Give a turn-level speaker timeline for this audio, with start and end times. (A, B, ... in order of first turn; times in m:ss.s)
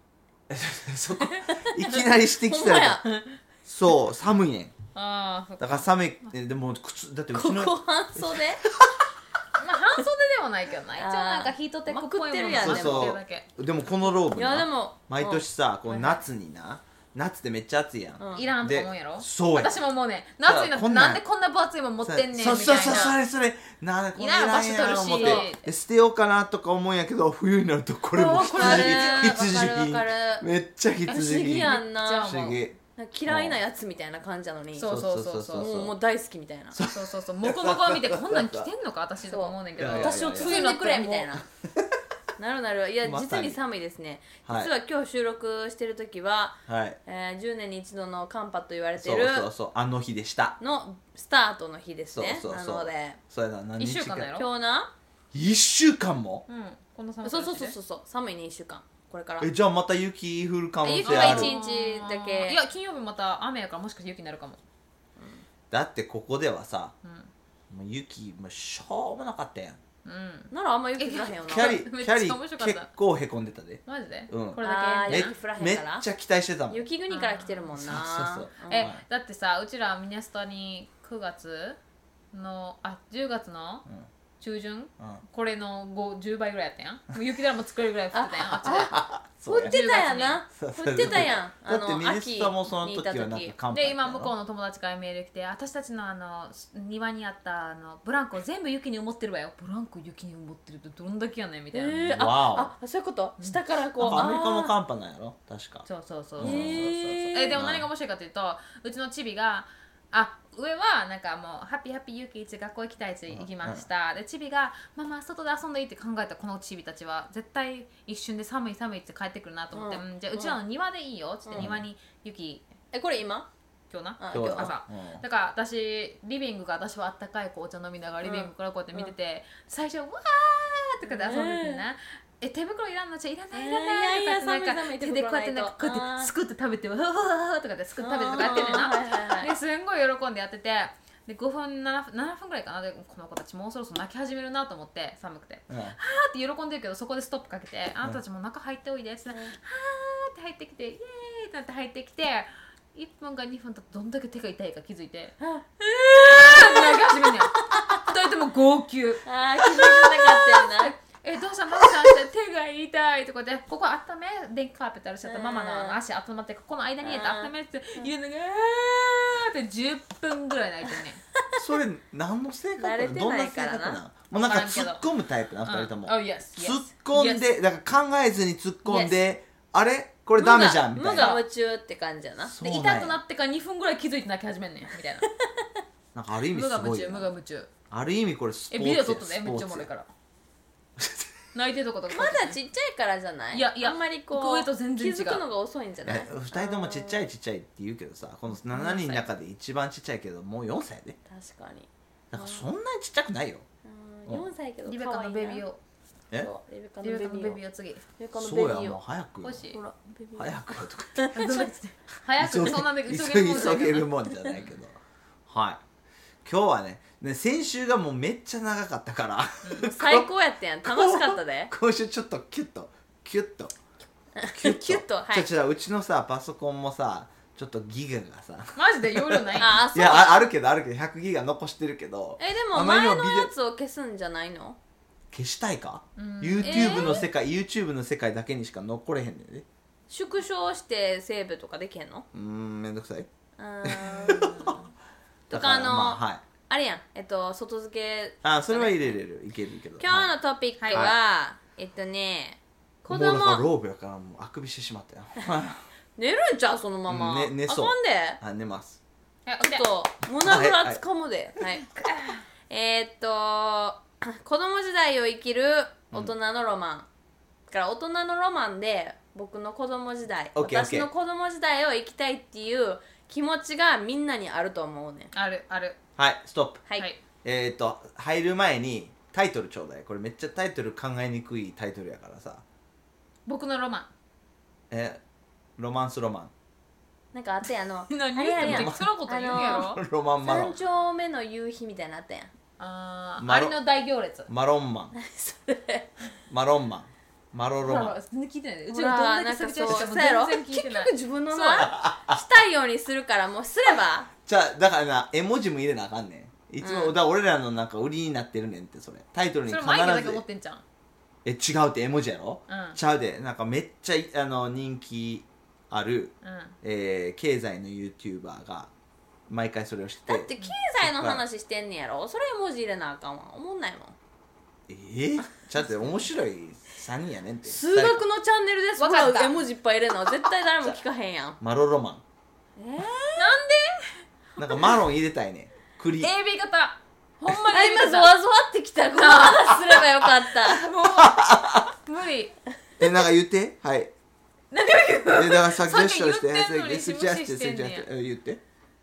0:00.5-0:03.0 A
0:02.5-0:03.2 B
0:03.6-0:04.8 A
0:04.9-0:05.9 C
0:05.6-0:08.9 A
0:07.3-0:08.6 B
0:09.6-0:13.5 C
0:11.0-0:13.2 B
0:12.5-0:19.8 A
0:14.3-0:15.4 B
0:18.2-0:18.5 B
0:18.3-0:23.2 C
0:20.4-0:21.2 A
0:22.0-0:33.6 A
0:22.4-0:23.2 B
0:24.2-0:25.6 C
0:25.1-0:25.5 B
0:28.1-0:29.4 C
0:28.2-0:30.5 B
0:31.1-0:34.9 B
0:31.1-0:32.6 C
0:34.8-0:35.7 C
0:34.8-0:35.9 A
0:35.5-0:36.8 B
0:36.8-0:38.7 A
0:36.9-0:41.4 C
0:39.3-0:41.4 B
0:39.8-0:40.6 A
0:42.4-0:49.5 B
0:43.0-0:43.6 A
0:44.5-0:44.7 A
0:46.7-0:47.0 A
0:49.0-0:50.6 A
0:50.6-0:53.2 B
0:52.1-0:54.4 A
0:53.8-0:54.5 C
0:54.4-0:54.9 B
0:55.3-0:56.4 A
0:56.5-0:57.8 C
0:57.2-0:59.5 B
0:59.4-1:01.6 A
1:00.8-1:02.6 B
1:01.0-1:04.6 C
1:05.2-1:05.4 B
1:05.7-1:07.0 A
1:07.0-1:07.3 C
1:07.7-1:09.8 A
1:10.0-1:12.9 C
1:10.5-1:11.8 B
1:11.5-1:16.8 A
1:13.9-1:15.3 C
1:14.6-1:16.0 B
1:16.7-1:18.9 B
1:17.1-1:17.7 C
1:17.8-1:19.0 A
1:18.7-1:21.8 C
1:22.3-1:23.9 C
1:24.4-1:29.0 C
1:28.1-1:28.9 B
1:28.7-1:29.8 A
1:29.5-1:33.6 B
1:29.6-1:30.4 C
1:30.6-1:34.3 A
1:33.7-1:42.2 C
1:41.7-1:44.7 B
1:42.1-1:42.7 A
1:43.4-1:44.3 C
1:44.0-1:45.9 A
1:45.9-2:02.7 C
1:46.4-1:47.9 A
1:46.4-1:47.7 B
1:53.3-1:53.9 A
1:59.7-2:00.6 B
2:01.5-2:01.8 B
2:01.6-2:01.8 A
2:02.9-2:03.5 B
2:03.9-2:35.4 C
2:04.2-2:04.7 B
2:04.3-2:05.2 A
2:08.2-2:09.1 B
2:11.0-2:11.8 B
2:13.5-2:16.3 B
2:18.0-2:19.5 B
2:25.7-2:26.0 A
2:29.3-2:29.6 B
2:35.4-2:38.0 B
2:36.1-2:51.2 C
2:39.2-2:41.0 B
2:45.2-2:46.0 B
2:47.0-2:48.1 B
2:51.6-3:01.4 A
2:52.8-2:54.0 B
2:54.3-2:55.0 C
2:55.7-2:57.4 C
2:58.8-2:59.2 C
3:00.4-3:02.5 B
3:01.0-3:01.4 C
3:02.4-3:03.2 A
3:02.6-3:05.3 C
3:05.2-3:05.8 B
3:06.2-3:07.3 A
3:06.5-3:07.7 C
3:07.9-3:09.9 A
3:08.7-3:10.1 C
3:11.0-3:11.3 A
3:11.5-3:12.6 C
3:12.1-3:17.3 B
3:13.5-3:15.4 C
3:16.0-3:21.2 A
3:18.7-3:19.2 C
3:21.3-3:22.7 B
3:22.3-3:23.6 A
3:23.8-3:25.6 B
3:24.8-3:25.8 C
3:26.4-3:27.6 B
3:27.0-3:28.0 C
3:28.2-3:29.0 B
3:28.4-3:29.7 A
3:29.4-3:29.8 C
3:29.7-3:31.7 B
3:30.4-3:31.4 A
3:31.3-3:34.6 C
3:32.4-3:35.8 A
3:36.4-3:40.3 A
3:39.6-3:39.9 C
3:39.8-3:41.7 B
3:40.8-3:43.8 A
3:44.4-3:45.5 B
3:44.4-3:53.5 A
3:48.8-3:49.9 C
3:49.6-3:50.5 B
3:52.4-3:54.8 B
3:55.3-3:59.7 A
3:56.2-3:57.3 C
3:56.6-3:57.3 B
4:00.1-4:02.3 B
4:02.3-4:03.3 A
4:03.6-4:04.8 B
4:03.8-4:04.8 A
4:05.5-4:09.2 B
4:05.5-4:06.4 A
4:08.4-4:10.3 A
4:10.0-4:13.6 B
4:10.8-4:11.1 C
4:13.1-4:15.8 A
4:16.2-4:18.4 B
4:17.1-4:19.0 A
4:19.5-4:19.9 C
4:19.6-4:21.9 B
4:20.4-4:21.0 A
4:22.7-4:27.1 B
4:27.7-4:35.3 B
4:30.6-4:31.1 A
4:35.3-4:36.0 C
4:36.2-4:36.8 A
4:37.4-4:42.6 A
4:43.5-4:44.1 C
4:44.9-4:45.2 A
4:45.8-4:46.5 A
4:47.3-4:52.5 B
4:48.1-4:50.0 C
4:48.6-4:50.8 A
4:52.8-4:54.5 C
4:53.4-4:53.8 A
4:54.5-4:55.2 A
4:55.2-4:56.1 B
4:56.5-4:58.2 A
4:57.8-5:01.9 C
4:58.9-5:04.3 B
5:01.8-5:02.4 A
5:04.4-5:10.4 A
5:06.8-5:07.2 B
5:09.7-5:10.8 C
5:11.4-5:18.9 A
5:12.7-5:13.0 C
5:16.4-5:16.8 C
5:19.5-5:21.4 A
5:20.3-5:24.2 B
5:24.9-5:28.2 A
5:27.6-5:31.6 B
5:29.0-5:29.6 C
5:31.6-5:32.2 A
5:32.8-5:33.5 B
5:33.4-5:34.2 C
5:34.6-5:36.3 A
5:36.2-5:38.3 C
5:37.5-5:40.9 B
5:39.2-5:40.1 C
5:40.7-5:42.6 C
5:41.0-5:41.9 A
5:43.0-5:44.1 A
5:44.7-5:48.1 C
5:45.3-5:48.6 A